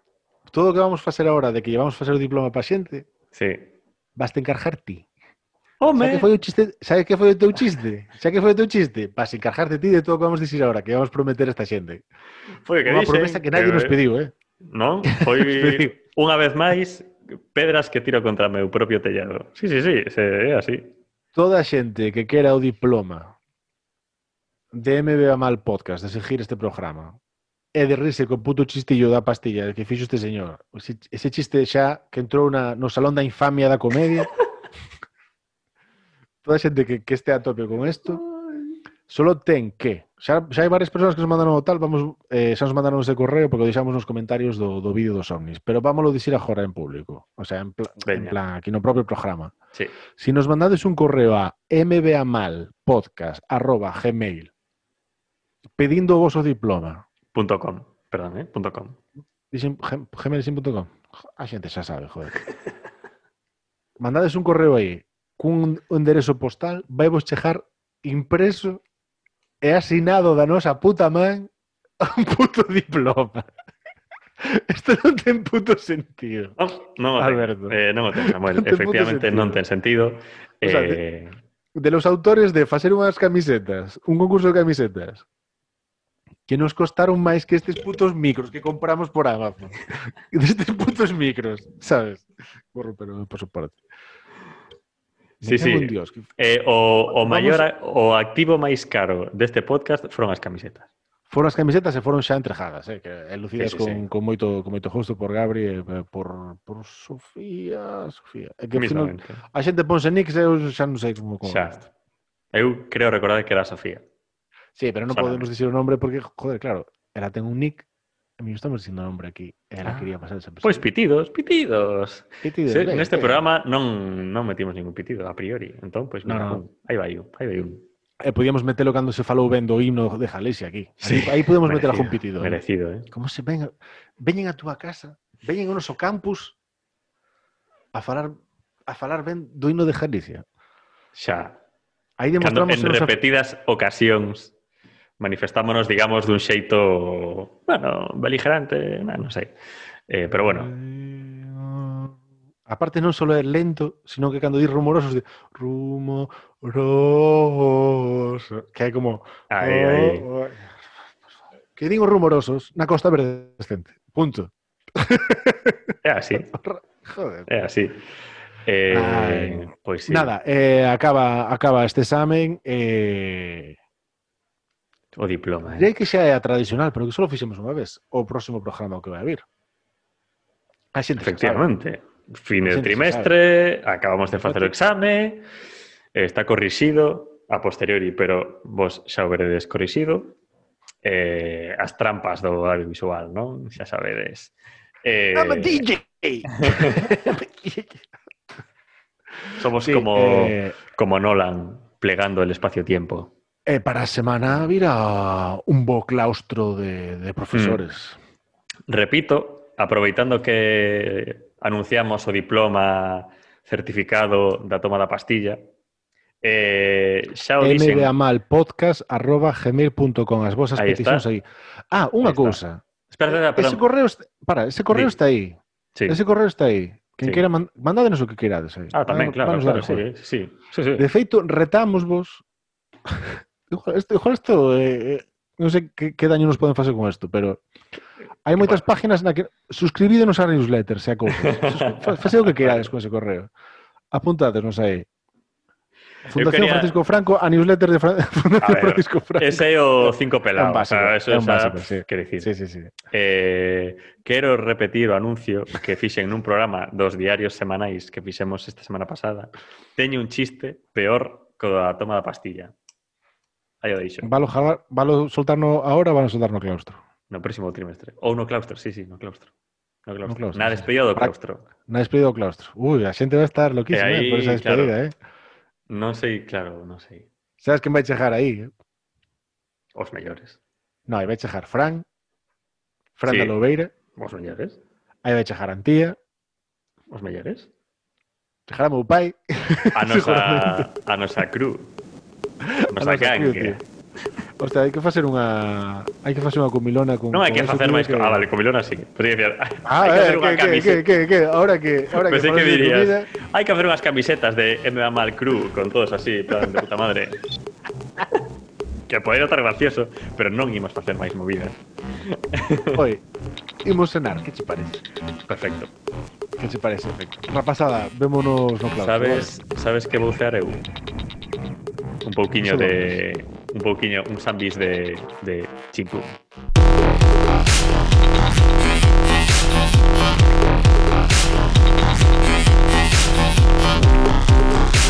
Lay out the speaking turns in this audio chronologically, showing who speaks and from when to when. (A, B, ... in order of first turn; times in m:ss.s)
0:00.5-0:03.1 A
0:03.3-0:03.7 B
0:04.2-0:05.0 A
0:05.8-0:06.3 B
0:05.9-0:12.0 A
0:12.6-0:14.0 B
0:12.8-0:14.3 A
0:14.7-0:20.9 B
0:15.1-0:15.9 A
0:21.3-0:23.3 A
0:24.7-0:27.2 A
0:27.7-0:34.3 A
0:36.4-0:38.2 A
0:39.1-0:49.5 A
0:48.0-0:48.4 B
0:50.2-0:54.5 A
0:55.8-0:57.0 A
0:57.3-0:59.0 B
0:59.5-1:02.4 A
1:04.0-1:08.8 A
1:09.6-1:13.5 A
1:14.4-1:16.6 A
1:16.6-1:21.3 B
1:17.2-1:19.6 A
1:20.6-1:21.0 A
1:21.8-1:25.2 A
1:26.5-1:33.8 A
1:35.4-1:36.3 A
1:35.4-1:40.9 B
1:37.1-1:37.7 A
1:41.3-1:51.9 A
1:43.6-1:44.0 B
1:48.7-1:49.4 B
1:51.4-1:51.8 B
1:52.5-1:54.0 B
1:54.8-1:57.8 A
1:55.1-1:55.5 B
1:58.4-2:00.9 A
2:00.6-2:07.8 B
2:02.4-2:03.4 A
2:06.2-2:06.6 A
2:08.2-2:12.6 A
2:11.0-2:13.1 B
2:13.1-2:16.6 A
2:17.9-2:20.4 A
2:21.1-2:21.6 B
2:22.2-2:23.2 A
2:22.4-2:24.5 B
2:25.2-2:29.5 B
2:30.1-2:30.7 B
2:30.3-2:32.1 A
2:32.7-2:40.7 A
2:39.5-2:40.3 B
2:41.8-2:47.5 A
2:46.0-2:46.5 B
2:47.5-2:48.0 B
2:48.7-2:50.3 B
2:48.9-2:53.8 A
2:55.1-2:55.9 B
2:55.7-2:59.4 A
3:00.9-3:01.7 A
3:01.2-3:05.4 B
3:02.6-3:03.3 A
3:04.4-3:04.7 A
3:06.1-3:10.3 B
3:11.0-3:14.5 B
3:15.0-3:15.9 B
3:15.3-3:18.0 A
3:16.6-3:17.2 B
3:19.6-3:23.3 B
3:19.8-3:20.8 A
3:23.7-3:28.2 A
3:27.5-3:27.8 B
3:28.9-3:35.6 B
3:36.4-3:38.1 B
3:37.6-3:45.6 A
3:40.8-3:41.2 B
3:42.2-3:42.6 B
3:43.1-3:43.8 B
3:46.1-3:50.0 A
3:48.9-3:51.1 B
3:51.0-3:52.4 A
3:53.1-3:57.6 A
3:58.4-4:03.5 A
4:01.4-4:02.9 B
4:04.1-4:05.1 A
4:06.3-4:12.9 A
4:06.3-4:07.0 B
4:08.6-4:12.5 B
4:13.1-4:22.7 B
4:23.8-4:24.3 B
4:24.2-4:27.0 A
4:27.3-4:29.5 B
4:30.0-4:31.6 B
4:30.2-4:31.3 A
4:31.9-4:35.1 A
4:33.9-4:35.0 B
4:35.9-4:37.3 B
4:37.6-4:38.7 A
4:40.0-4:40.6 B
4:41.1-4:42.0 A
4:43.2-4:43.9 A
4:43.3-4:43.6 B
4:44.2-4:44.8 B
4:45.2-4:46.2 A
4:47.1-4:47.7 B
4:48.7-4:50.9 A
4:49.9-4:51.9 B
4:52.6-4:53.8 A
4:52.9-4:53.8 B
4:54.6-4:58.5 A
4:57.3-5:01.1 B
4:59.8-5:03.3 A
5:02.2-5:07.4 B
5:09.1-5:11.8 B
5:12.3-5:13.0 B
5:13.0-5:13.2 A
5:13.8-5:15.0 A
5:15.5-5:15.9 B
5:16.6-5:19.5 A
5:19.0-5:20.8 B
5:22.2-5:26.4 B
5:22.6-5:23.1 A